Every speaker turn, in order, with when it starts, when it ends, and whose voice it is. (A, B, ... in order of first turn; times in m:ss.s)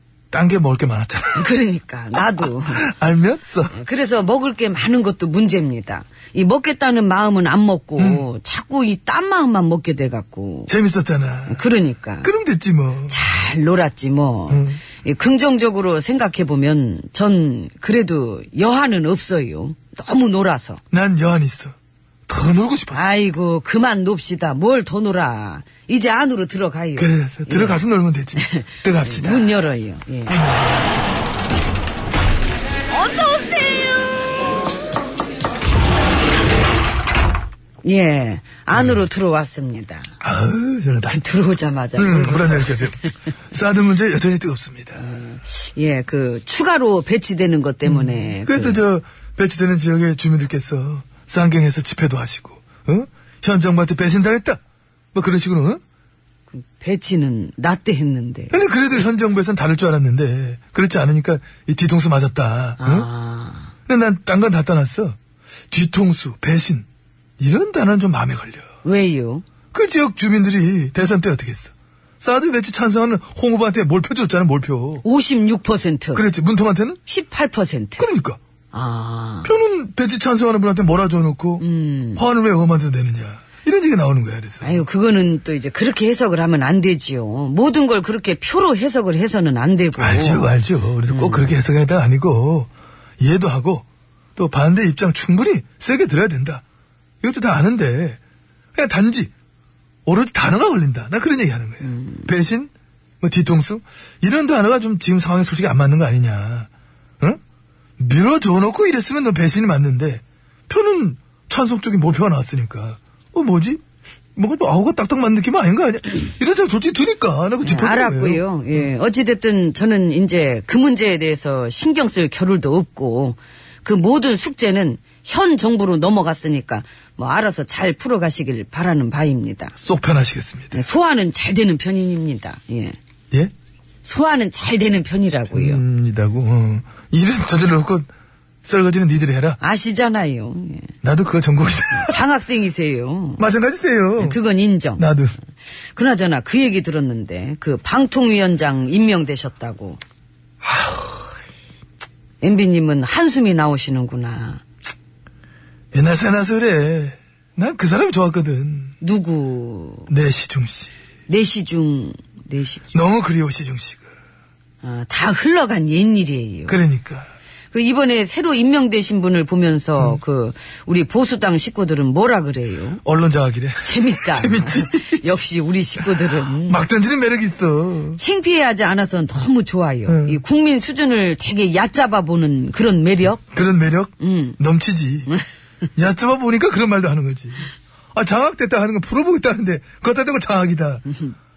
0:00.3-0:01.5 A
0:01.3-0:02.9 B
0:02.4-0:03.8 A
0:03.7-0:10.7 B
0:08.0-0:08.2 A
0:10.7-0:11.6 A
0:11.5-0:12.3 B
0:12.2-0:13.2 A
0:13.1-0:20.8 B
0:14.5-0:14.8 A
0:20.9-0:21.7 A
0:22.3-0:23.1 A
0:22.9-0:27.8 B
0:27.0-0:29.5 A
0:28.4-0:30.4 B
0:30.3-0:30.9 A
0:32.9-0:33.9 B
0:37.8-0:40.1 B
0:38.7-0:39.0 A
0:40.2-0:41.2 A
0:41.0-0:43.1 B
0:42.0-0:45.0 A
0:45.0-0:48.8 B
0:47.8-0:54.6 A
0:55.1-0:55.8 A
0:56.5-0:58.6 B
0:58.5-1:03.1 A
1:02.8-1:03.7 B
1:03.9-1:05.2 A
1:05.7-1:06.8 A
1:07.4-1:08.6 A
1:08.8-1:09.4 B
1:09.7-1:15.0 A
1:15.0-1:16.2 B
1:16.1-1:17.0 A
1:17.0-1:18.0 B
1:18.0-1:18.4 A
1:18.7-1:19.5 B
1:19.4-1:24.8 A
1:21.6-1:22.2 B
1:24.6-1:30.5 B
1:30.0-1:33.8 A
1:31.1-1:31.5 B
1:34.4-1:36.6 A
1:37.2-1:38.2 A
1:38.7-1:39.3 A
1:40.0-1:46.7 A
1:41.8-1:42.2 B
1:48.0-1:53.8 A
1:54.4-1:58.4 A
1:57.6-2:09.7 B
2:09.8-2:10.8 A
2:10.7-2:13.0 B
2:14.0-2:15.8 B
2:15.5-2:18.1 A
2:18.6-2:19.6 A
2:19.6-2:20.9 B
2:21.0-2:22.2 A
2:22.0-2:23.4 B
2:23.4-2:24.4 A
2:24.2-2:25.1 B
2:25.0-2:25.3 A
2:25.9-2:30.0 B
2:32.4-2:34.6 B
2:35.9-2:38.9 A
2:39.0-2:40.1 B
2:40.1-2:40.9 A
2:41.3-2:42.9 B
2:42.9-2:44.1 A
2:44.8-2:46.8 B
2:46.7-2:47.3 A
2:47.7-2:53.0 B
2:53.0-2:55.2 A
2:53.8-2:56.8 B
2:56.1-2:58.2 A
2:58.2-3:03.4 B
3:00.1-3:00.4 A
3:03.5-3:05.3 A
3:04.2-3:04.6 B
3:06.0-3:11.0 A